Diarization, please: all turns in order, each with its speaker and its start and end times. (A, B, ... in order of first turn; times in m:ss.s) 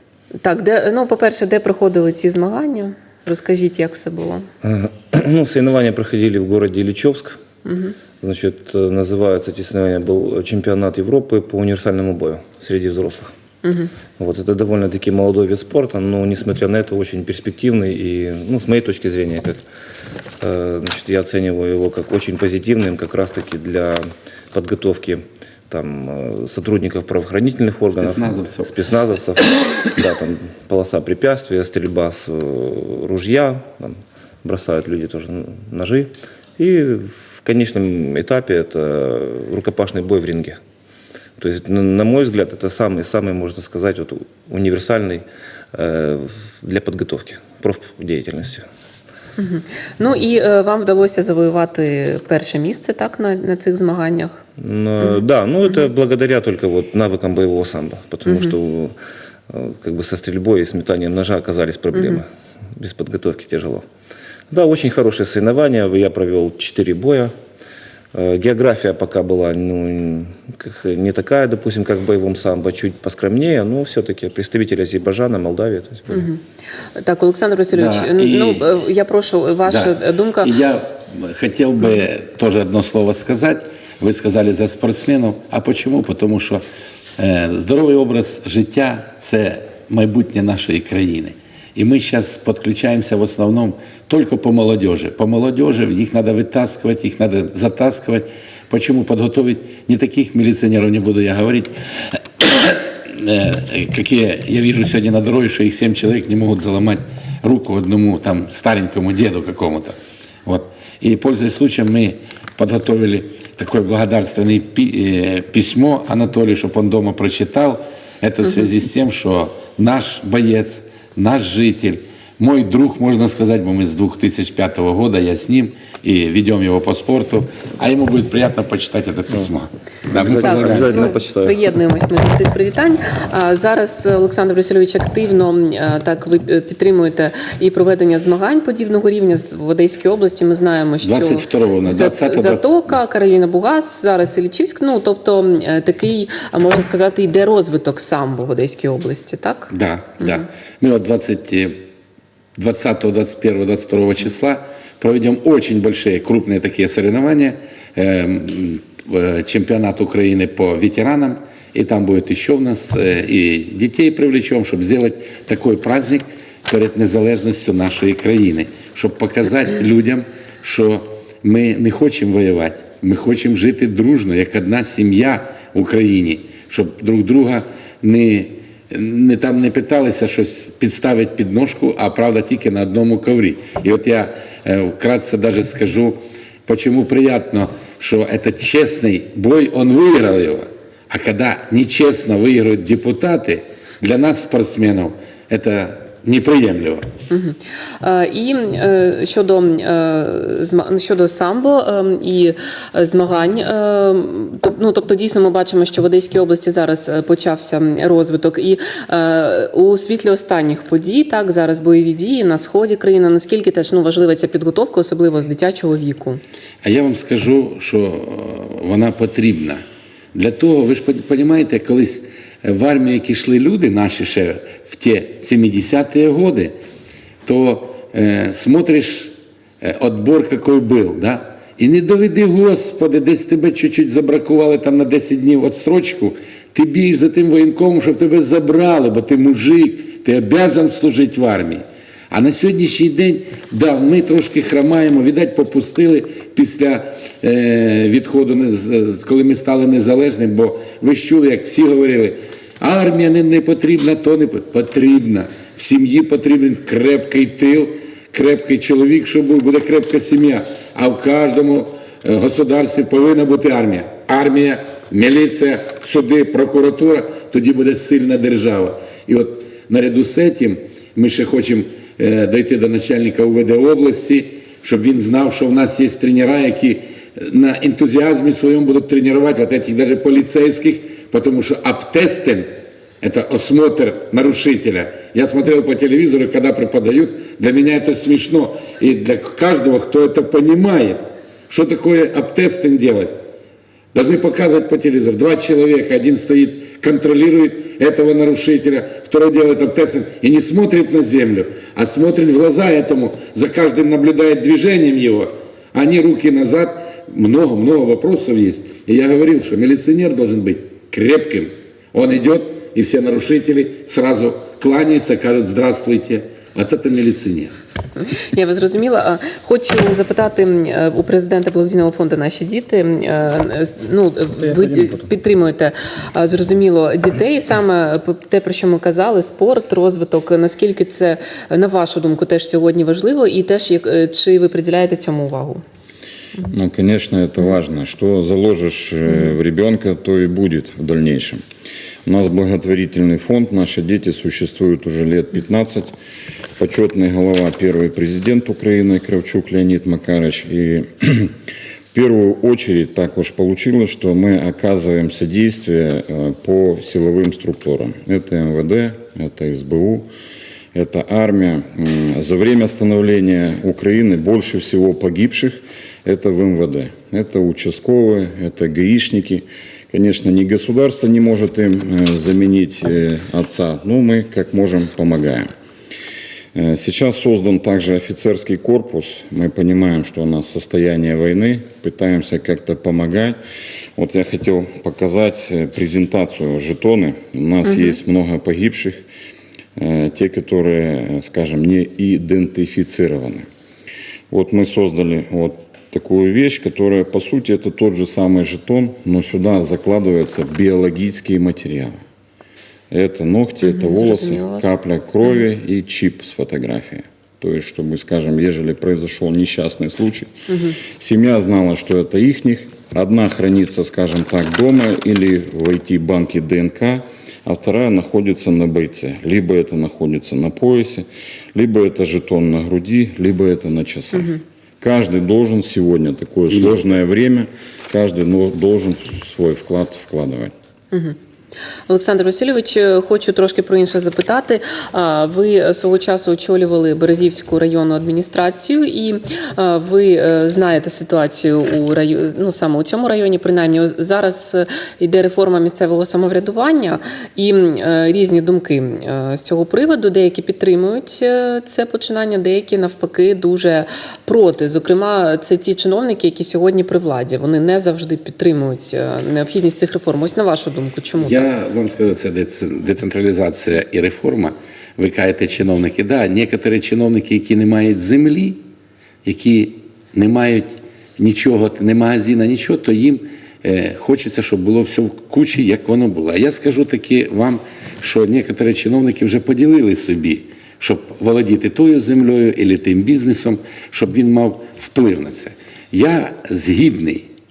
0:00.4-0:04.5 A
0:04.6-0:07.4 B
0:07.6-0:07.9 A
0:08.2-0:13.3 B
0:13.6-0:13.9 A
0:14.2-0:19.6 B
0:20.4-0:24.0 B
0:24.5-0:40.6 B
0:27.9-0:28.7 C
0:41.4-0:48.6 B
0:49.4-0:54.4 A
0:54.6-0:58.9 B
0:58.2-0:58.5 A
0:59.5-1:03.8 B
1:01.9-1:02.2 A
1:04.5-1:07.3 B
1:08.1-1:16.3 B
1:16.1-1:16.4 A
1:17.0-1:20.5 A
1:17.7-1:18.7 C
1:19.6-1:26.6 C
1:27.2-1:49.9 C
1:50.4-2:11.0 C
2:10.1-2:11.6 B
2:10.3-2:30.4 A
2:21.0-2:22.8 C
2:29.7-2:31.7 C
2:32.6-3:17.1 C
3:17.3-3:36.4 A
3:36.8-3:39.8 C
3:40.3-3:46.7 C
3:47.4-4:42.7 C
4:43.2-4:51.2 C
4:51.7-4:53.3 C
4:54.1-5:17.7 C
5:18.5-5:35.8 A
5:24.6-5:25.2 B
5:36.7-5:41.6 D
5:42.2-5:46.1 D
5:46.8-5:51.5 D
5:52.1-6:00.3 D
6:00.9-6:15.7 D
6:16.7-6:23.6 D
6:24.2-6:29.2 D
6:27.8-6:28.2 A
6:30.0-6:33.6 D
6:34.5-6:42.2 D
6:43.1-6:50.5 D
6:43.8-6:44.9 A
6:50.7-6:51.0 A
6:51.2-7:10.7 D
7:06.7-7:07.0 C
7:12.1-7:41.7 A
7:41.4-7:48.8 C
7:49.4-8:07.4 C